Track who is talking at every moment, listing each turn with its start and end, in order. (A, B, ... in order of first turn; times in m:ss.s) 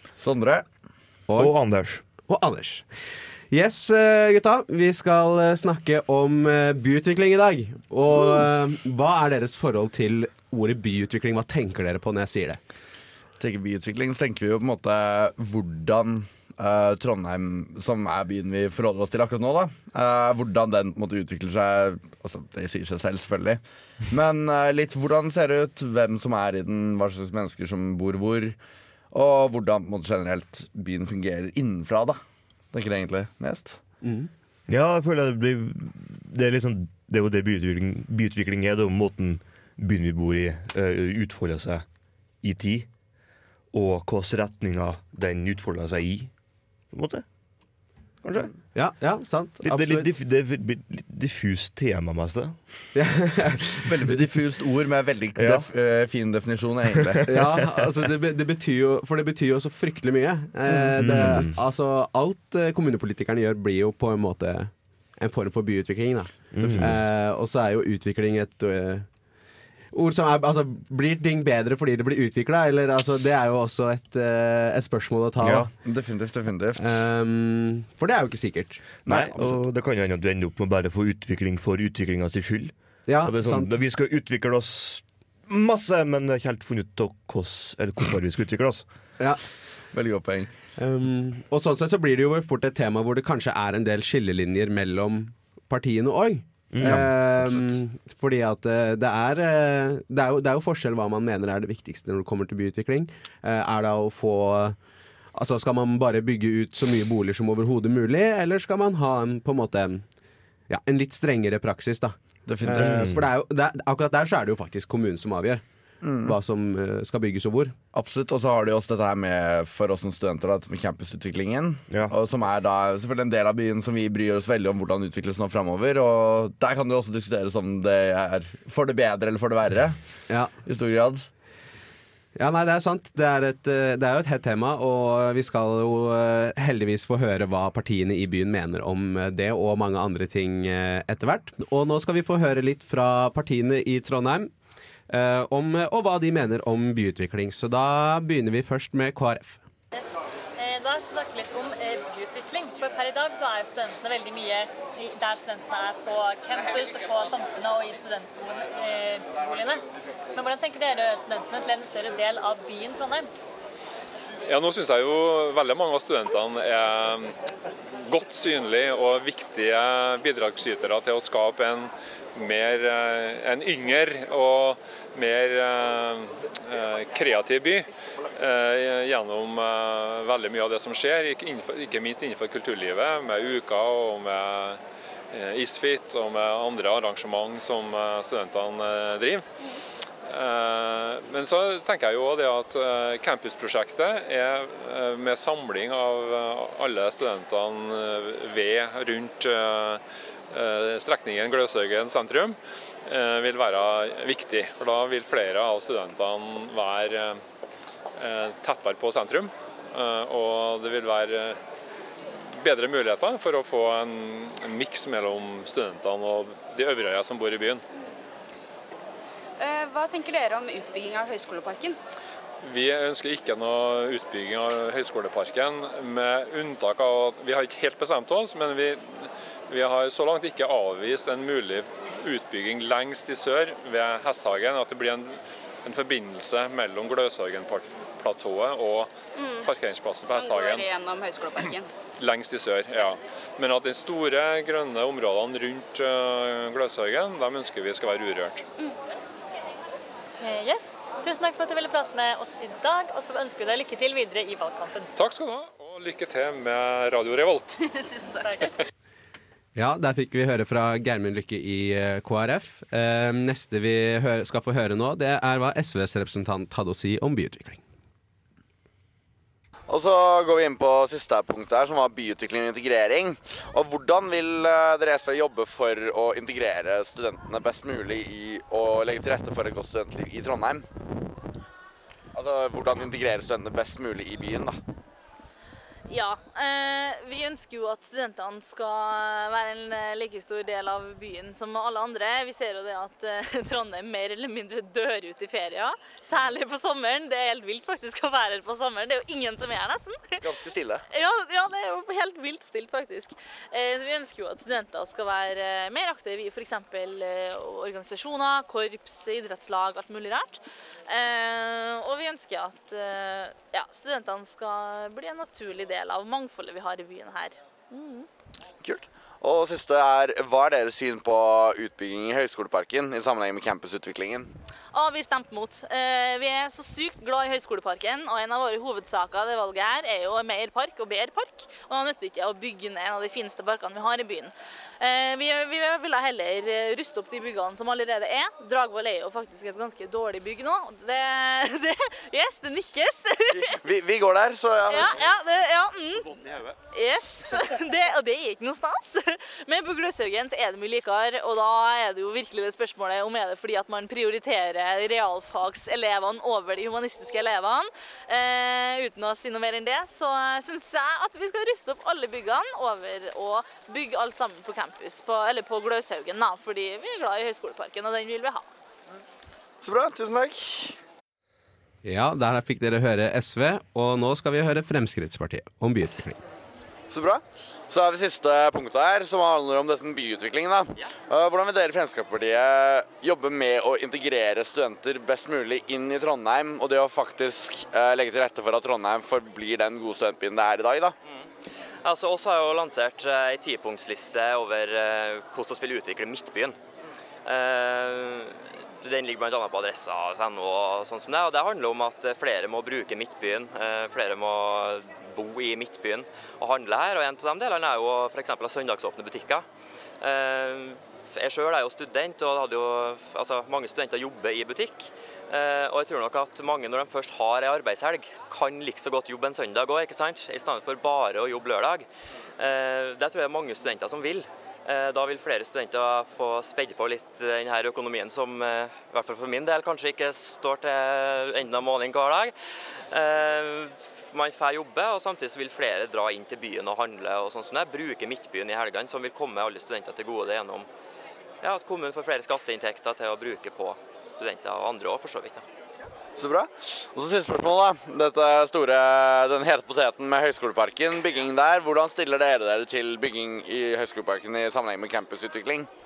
0:00.2-0:00.7 A
0:01.3-0:01.5 B
0:01.4-0:02.0 C
0:02.1-0:12.6 B
0:13.4-0:28.6 A
0:29.1-0:32.2 A
0:32.7-0:33.8 A
0:34.0-0:34.3 B
0:34.7-0:41.9 C
0:42.4-0:42.9 C
0:43.7-0:46.3 C
0:46.9-0:47.2 C
0:48.2-0:48.7 C
0:48.7-0:50.1 B
0:49.6-0:52.9 C
0:52.9-0:53.9 B
0:53.9-0:57.5 A
0:55.4-0:55.7 C
0:57.3-1:09.4 B
1:00.7-1:01.6 C
1:06.5-1:07.1 C
1:09.9-1:15.7 B
1:15.4-1:15.7 C
1:15.8-1:17.0 A
1:16.8-1:18.9 B
1:19.0-1:28.9 C
1:19.1-1:19.6 A
1:23.1-1:23.7 B
1:29.9-1:30.5 A
1:30.8-1:44.8 B
1:36.7-1:37.6 C
1:45.3-1:50.1 B
1:50.7-1:55.6 B
1:52.4-1:53.0 A
1:52.8-1:53.3 C
1:56.0-1:56.3 A
1:56.2-1:57.8 B
1:57.9-2:11.3 A
2:12.3-2:24.5 B
2:25.1-2:29.6 B
2:30.6-2:43.3 D
2:44.4-2:47.3 E
2:48.0-3:04.8 E
3:05.3-3:09.4 E
3:10.3-3:27.4 E
3:28.1-3:31.6 E
3:32.6-3:37.8 E
3:39.6-3:42.0 F
3:42.6-3:59.1 E
3:59.3-3:59.7 F
3:59.6-4:00.9 E
4:00.2-4:01.9 F
4:02.2-4:08.6 E
4:10.4-4:15.1 D
4:15.2-4:17.8 E
4:17.8-4:18.7 F
4:18.4-4:18.7 D
4:19.8-4:27.8 B
4:29.9-4:40.9 A
4:42.3-4:44.8 A
4:46.1-5:00.4 G
5:00.4-5:01.0 A
5:01.1-5:18.3 G
5:18.8-5:24.5 A
5:24.9-5:43.8 G
5:43.5-5:45.2 A
5:44.9-5:46.3 G
5:46.4-5:46.7 A
5:46.9-6:08.7 G
6:09.8-6:11.0 A
6:12.0-6:16.4 B
6:17.1-6:31.2 A
6:32.0-6:36.8 H
6:37.4-6:49.7 H
6:50.2-7:02.1 H
7:02.6-7:12.5 H
7:13.1-7:20.9 H
7:21.6-7:25.6 H
7:26.4-7:35.9 A